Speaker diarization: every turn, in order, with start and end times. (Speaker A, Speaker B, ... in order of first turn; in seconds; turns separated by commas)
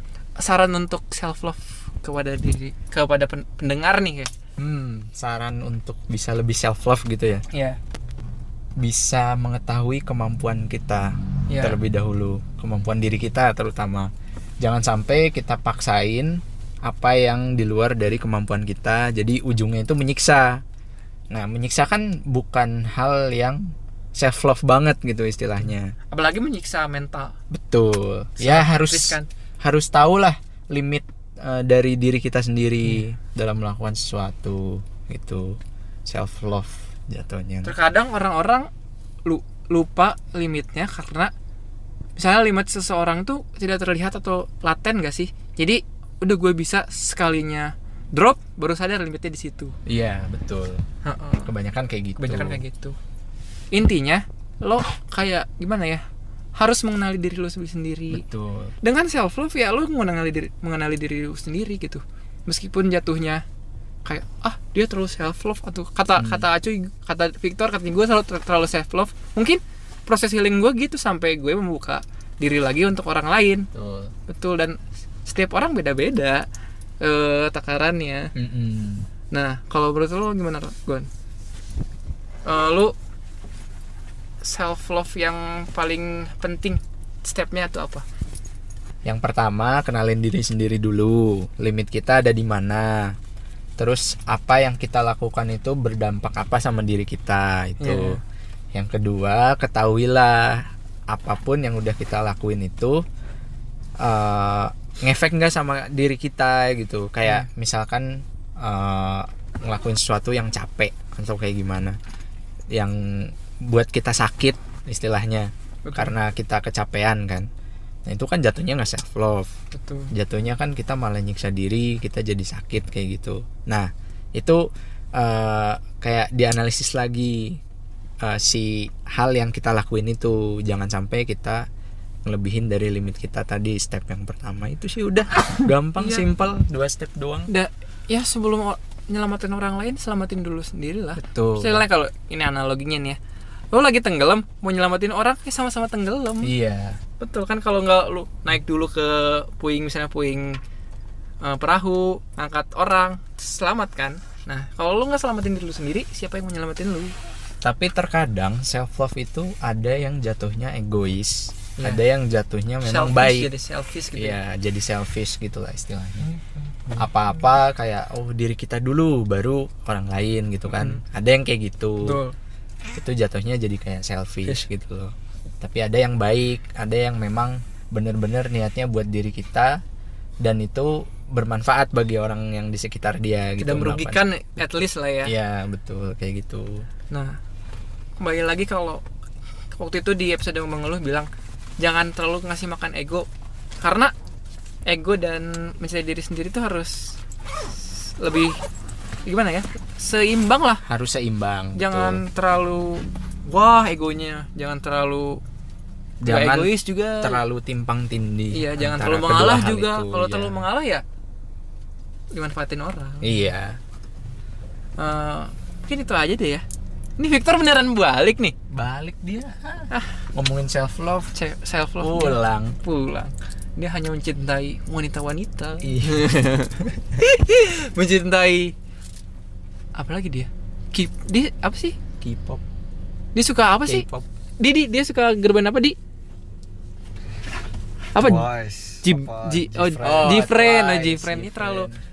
Speaker A: 0.4-4.3, Speaker B: 4.6-7.4, Speaker A: 7.5-7.8, Speaker B: 8.8-20.6, Speaker A: 11.5-11.8, Speaker B: 21.3-25.9, Speaker A: 26.1-27.3, Speaker B: 27.5-37.7, Speaker A: 28.4-29.3, Speaker A: 37.6-38.7, Speaker A: 39.2-41.3, Speaker A: 42.1-49.7, Speaker B: 49.9-50.8, Speaker A: 51.0-51.5, Speaker B: 51.4-52.6, Speaker A: 52.2-53.0, Speaker A: 53.7-56.0, Speaker A: 56.6-58.2, Speaker B: 58.1-58.7, Speaker A: 58.8-63.4, Speaker A: 64.0-73.7, Speaker B: 66.2-66.5, Speaker B: 73.7-74.1, Speaker A: 74.3-76.5, Speaker A: 77.0-78.3, Speaker B: 78.3-79.1, Speaker A: 79.3-81.1, Speaker A: 82.4-82.9, Speaker A: 84.4-88.0, Speaker B: 89.0-93.1, Speaker B: 93.8-98.2, Speaker A: 97.8-98.2, Speaker B: 98.7-103.0, Speaker B: 104.0-112.0, Speaker B: 112.7-117.5, Speaker A: 115.8-116.1, Speaker B: 118.0-119.5, Speaker A: 119.7-120.1, Speaker B: 120.1-127.6, Speaker B: 128.2-131.7, Speaker B: 132.2-137.5, Speaker A: 136.0-136.3, Speaker A: 137.5-143.2, Speaker B: 141.2-141.8, Speaker A: 143.7-146.5, Speaker B: 146.4-147.0, Speaker A: 147.2-150.6, Speaker A: 151.4-157.1, Speaker B: 157.6-163.5, Speaker A: 162.8-164.4, Speaker B: 164.1-166.3, Speaker A: 166.2-167.1, Speaker B: 166.9-172.2, Speaker A: 170.7-171.0, Speaker A: 172.0-172.3, Speaker B: 172.9-179.8, Speaker B: 180.4-184.6, Speaker A: 183.6-185.3, Speaker B: 185.2-186.9, Speaker A: 187.1-187.4, Speaker A: 188.2-189.0, Speaker A: 189.7-191.3, Speaker A: 191.8-193.3, Speaker A: 193.8-194.1, Speaker A: 194.8-197.2, Speaker A: 197.9-198.6, Speaker A: 199.2-200.8, Speaker B: 200.8-202.2, Speaker A: 201.8-205.4, Speaker B: 206.2-210.6, Speaker A: 206.2-207.4, Speaker A: 208.5-211.0, Speaker A: 212.3-213.3, Speaker B: 213.2-213.8, Speaker A: 215.0-216.6, Speaker A: 217.2-218.5, Speaker B: 218.7-221.3, Speaker A: 221.3-228.7, Speaker B: 222.0-222.8, Speaker B: 225.8-226.4, Speaker A: 229.9-232.0, Speaker B: 232.2-232.6, Speaker A: 233.3-234.1, Speaker B: 233.8-234.2, Speaker A: 234.6-235.9, Speaker A: 238.1-238.4, Speaker C: 238.2-240.3, Speaker A: 239.0-241.9, Speaker B: 239.8-242.0